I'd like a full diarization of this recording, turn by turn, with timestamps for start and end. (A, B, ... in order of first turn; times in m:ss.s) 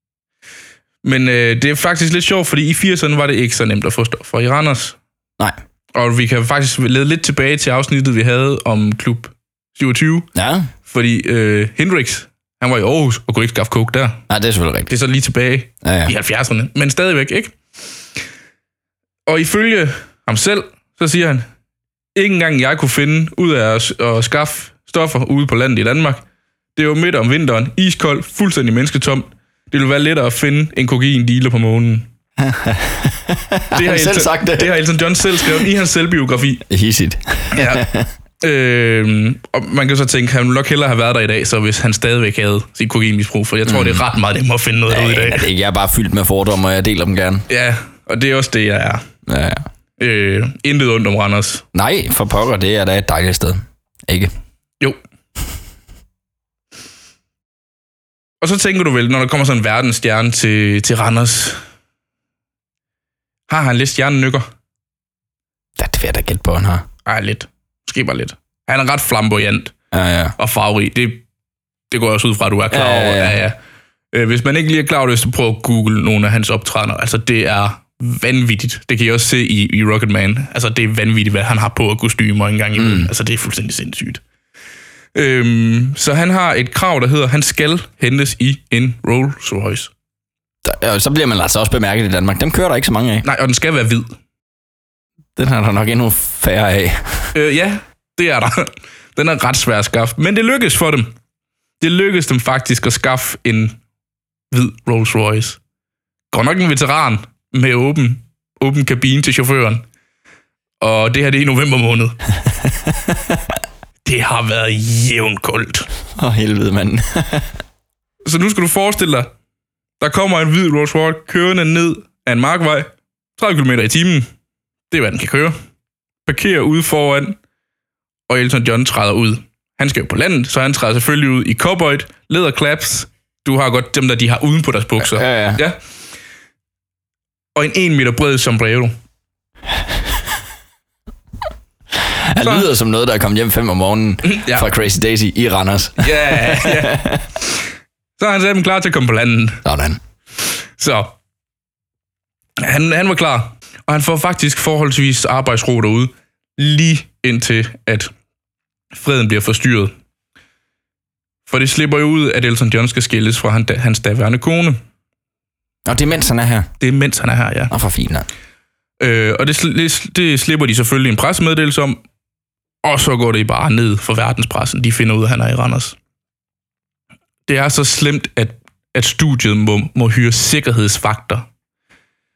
0:01.0-0:05.0 A
0:06.0-0:10.3 A
0:10.4-0:10.7 B
0:10.8-0:14.2 A
0:14.3-0:14.9 B
0:14.9-0:17.6 A
0:15.8-0:16.1 B
0:19.3-0:21.5 A
0:22.2-0:26.2 A
0:26.8-0:32.1 A
0:32.4-0:34.8 B
0:33.7-0:36.6 A
0:35.4-0:35.7 B
0:36.7-0:38.1 B
0:37.5-0:37.9 A
0:38.4-0:45.5 A
0:43.7-0:44.0 B
0:44.9-0:47.5 B
0:47.5-0:49.0 A
0:49.3-0:49.6 B
0:50.0-0:51.6 A
0:51.7-0:54.3 B
0:58.4-1:01.6 A
1:03.5-1:04.5 A
1:05.8-1:06.8 B
1:07.1-1:09.7 A
1:09.9-1:10.4 B
1:10.4-1:11.2 A
1:11.9-1:13.6 A
1:12.7-1:13.4 B
1:14.1-1:24.2 A
1:22.8-1:23.1 B
1:25.2-1:29.9 A
1:30.6-1:33.2 B
1:33.2-1:34.2 A
1:35.4-1:37.3 B
1:37.3-1:41.1 A
1:41.8-1:43.8 A
1:44.5-1:45.6 A
1:46.3-1:49.8 A
1:50.8-1:52.2 A
1:52.8-1:53.4 B
1:54.0-1:55.9 A
1:56.2-1:57.5 B
1:58.2-1:59.3 A
2:00.0-2:04.3 A
2:04.9-2:05.6 A
2:06.3-2:07.4 A
2:08.3-2:15.8 A
2:15.0-2:15.6 B
2:17.6-2:18.9 A
2:22.0-2:27.2 B
2:22.4-2:22.7 A
2:24.2-2:24.7 A
2:26.0-2:27.7 A
2:28.2-2:29.6 A
2:29.6-2:30.0 B
2:30.4-2:31.2 A
2:32.6-2:38.1 A
2:38.9-2:39.9 A
2:41.5-2:44.8 A
2:45.9-2:46.7 B
2:46.8-2:47.7 A
2:47.7-2:48.3 B
2:49.0-2:52.0 A
2:52.8-2:56.0 A
2:57.5-3:01.5 A